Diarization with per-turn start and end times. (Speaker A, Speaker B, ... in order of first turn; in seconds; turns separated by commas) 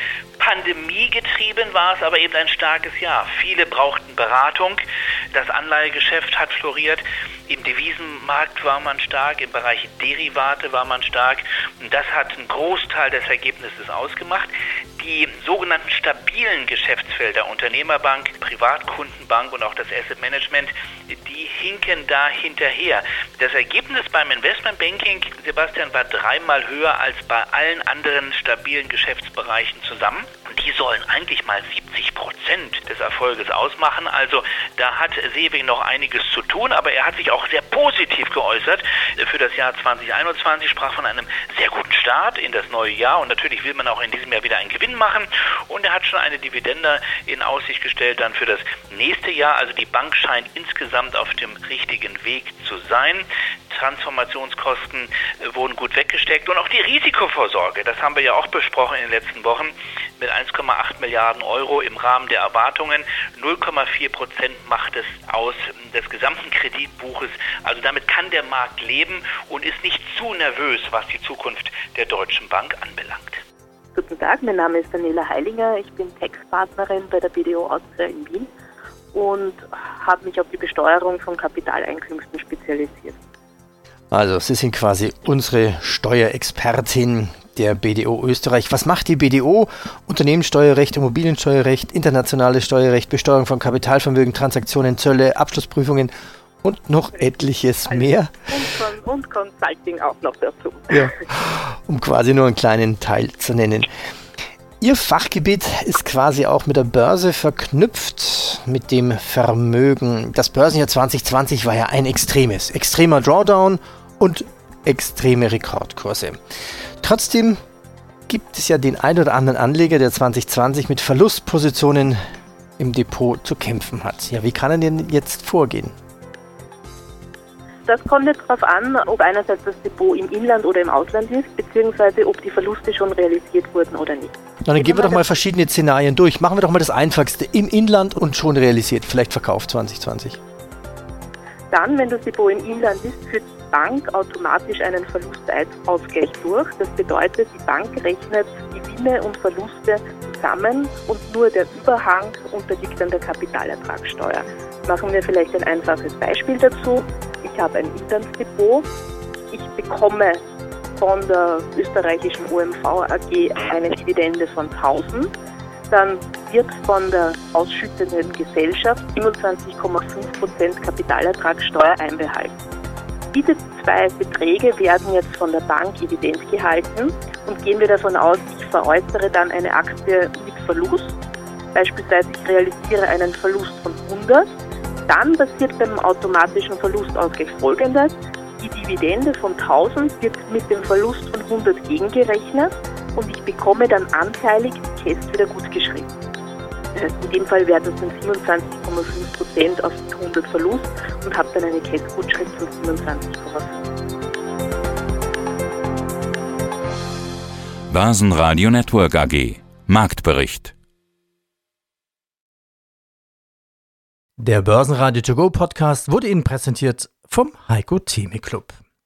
Speaker A: 0.4-73.4, Speaker B: 73.9-78.5, Speaker B: 79.1-83.2, Speaker C: 84.1-96.1, Speaker C: 96.6-98.3, Speaker B: 97.8-101.1, Speaker C: 100.9-103.9, Speaker C: 104.8-116.4, Speaker C: 117.0-117.6, Speaker C: 118.3-122.2, Speaker C: 122.8-125.9, Speaker B: 127.8-135.3, Speaker C: 134.6-140.4, Speaker B: 141.7-158.8, Speaker B: 159.5-160.4, Speaker B: 161.0-165.3, Speaker B: 165.9-172.5, Speaker B: 173.3-181.2, Speaker B: 181.7-184.5, Speaker B: 185.1-196.1, Speaker B: 196.9-203.7, Speaker D: 207.9-210.7, Speaker C: 214.4-218.7